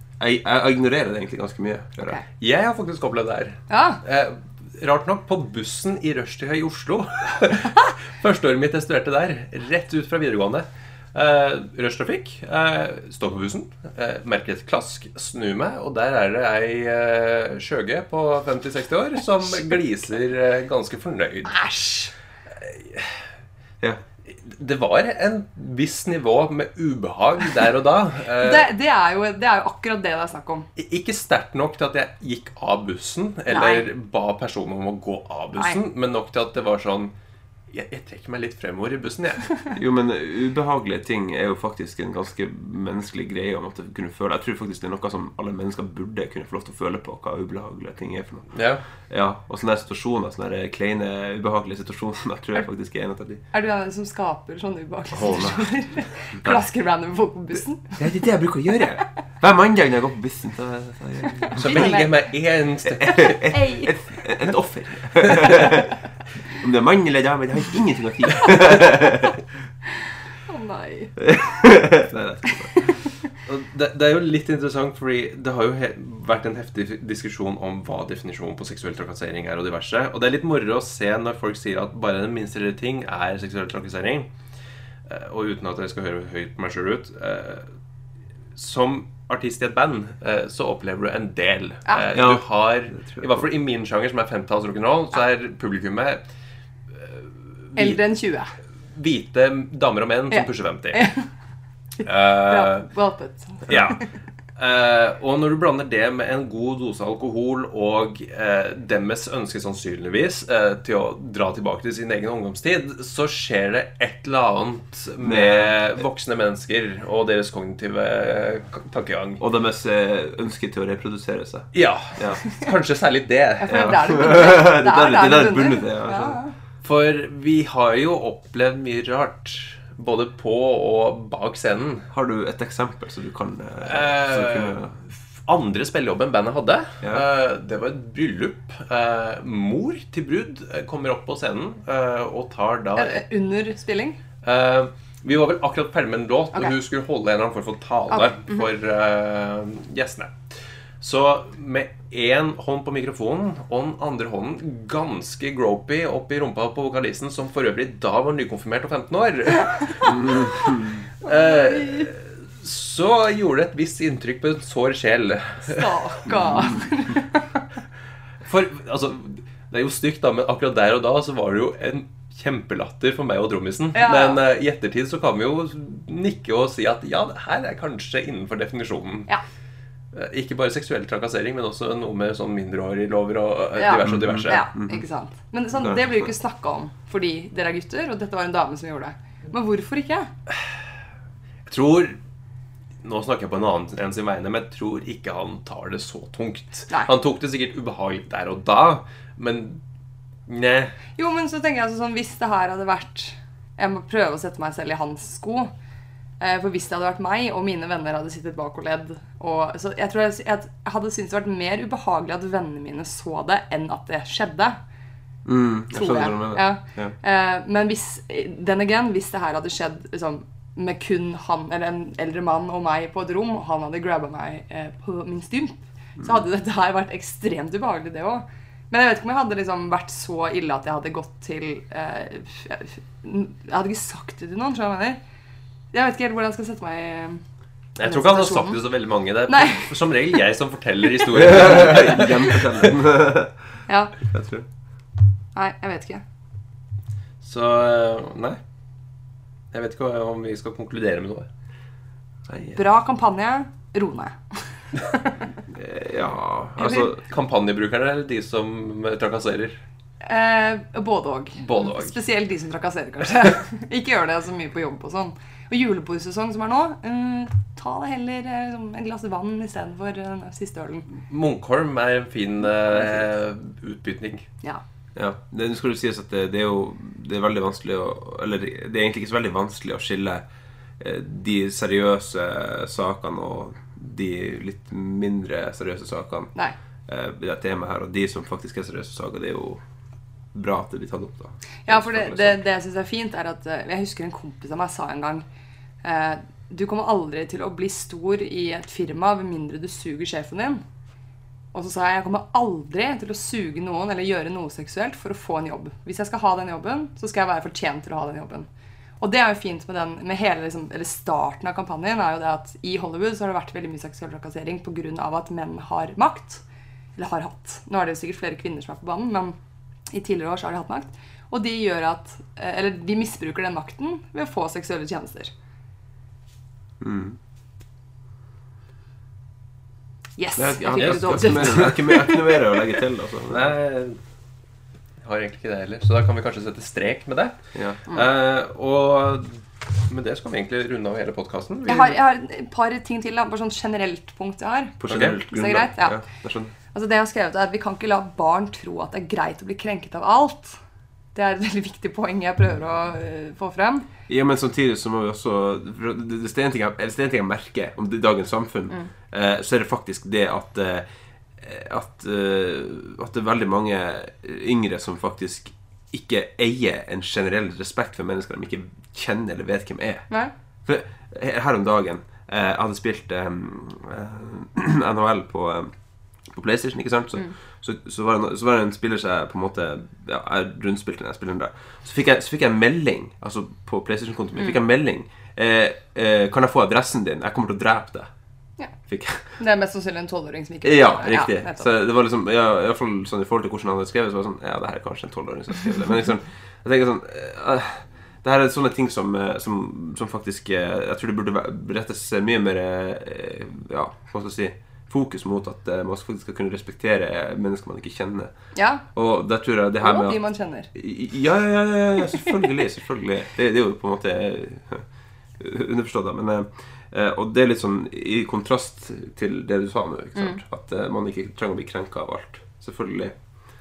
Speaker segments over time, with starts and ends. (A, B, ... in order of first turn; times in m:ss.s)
0:00.2-0:02.2 A
0:02.4-0:21.6 B
0:03.7-0:04.0 C
0:21.4-0:22.1 C
0:22.6-0:23.2 B
0:24.3-0:28.7 B
0:28.4-0:30.7 C
0:30.8-0:37.1 B
0:33.5-0:33.8 C
0:35.5-0:35.8 C
0:37.7-0:39.5 B
0:39.8-0:53.4 A
0:48.5-0:48.8 B
0:53.5-0:58.2 C
0:55.1-0:56.6 A
0:58.0-1:01.9 A
1:01.3-1:02.2 C
1:01.5-1:03.4 B
1:03.0-1:06.0 A
1:03.1-1:03.9 C
1:05.2-1:05.7 B
1:06.5-1:09.4 A
1:10.5-1:11.4 C
1:11.2-1:13.0 A
1:13.3-1:24.3 B
1:25.0-1:27.7 B
1:28.5-1:36.2 B
1:32.1-1:33.4 A
1:36.9-1:38.0 B
1:37.8-1:38.5 C
1:38.9-1:41.0 B
1:40.3-1:41.3 C
1:42.0-1:44.1 C
1:42.0-1:42.9 B
1:43.7-1:59.4 B
1:55.2-1:55.8 A
1:59.4-2:02.4 A
2:01.7-2:04.1 B
2:03.6-2:06.5 C
2:03.7-2:06.4 A
2:06.8-2:12.1 B
2:12.1-2:15.0 A
2:13.8-2:23.2 B
2:23.0-2:24.2 C
2:24.4-2:46.4 B
2:28.1-2:28.6 C
2:40.0-2:42.1 C
2:40.1-2:41.0 A
2:45.6-2:47.6 C
2:48.4-2:59.3 B
2:53.9-2:54.4 C
3:00.1-3:04.7 B
3:03.8-3:10.3 C
3:04.0-3:05.0 A
3:05.7-3:06.2 A
3:11.6-3:12.2 B
3:13.0-3:19.8 B
3:20.5-3:21.0 B
3:21.2-3:25.7 C
3:26.4-3:34.8 C
3:35.4-3:37.2 A
3:35.9-3:55.2 C
3:55.9-3:57.4 C
3:58.0-4:02.9 B
3:58.0-3:58.8 C
3:59.5-4:00.2 C
4:01.3-4:04.6 A
4:03.9-4:04.2 C
4:05.5-4:06.2 C
4:07.4-4:08.6 B
4:09.7-4:11.5 B
4:12.5-4:12.8 A
4:12.7-4:15.6 C
4:15.7-4:17.2 A
4:16.8-4:17.1 C
4:17.0-4:19.8 B
4:20.2-4:31.1 C
4:21.6-4:22.2 B
4:31.1-4:34.5 B
4:35.1-4:40.4 A
4:41.0-4:46.5 A
4:47.1-4:49.8 A
4:50.5-4:52.6 A
4:51.8-4:55.4 C
4:56.0-5:00.8 C
5:01.7-5:08.7 C
5:09.2-5:16.6 C
5:17.2-5:19.6 C
5:20.1-5:25.5 C
5:27.0-5:27.4 A
5:30.4-5:33.0 C
5:30.6-5:33.7 A
5:33.5-5:34.2 B
5:35.2-5:42.2 B
5:37.7-5:38.0 A
5:41.9-5:46.2 C
5:45.0-5:46.7 A
5:45.1-5:45.4 B
5:46.9-5:50.8 C
5:51.3-5:54.1 C
5:54.3-6:01.0 A
6:01.6-6:10.3 A
6:10.8-6:15.9 A
6:16.4-6:28.3 A
6:29.1-6:29.6 A
6:29.6-6:31.9 C
6:30.8-6:48.5 A
6:48.7-6:49.0 C
6:49.1-6:55.1 A
6:50.0-6:50.9 C
6:55.6-7:03.4 A
7:00.3-7:00.6 C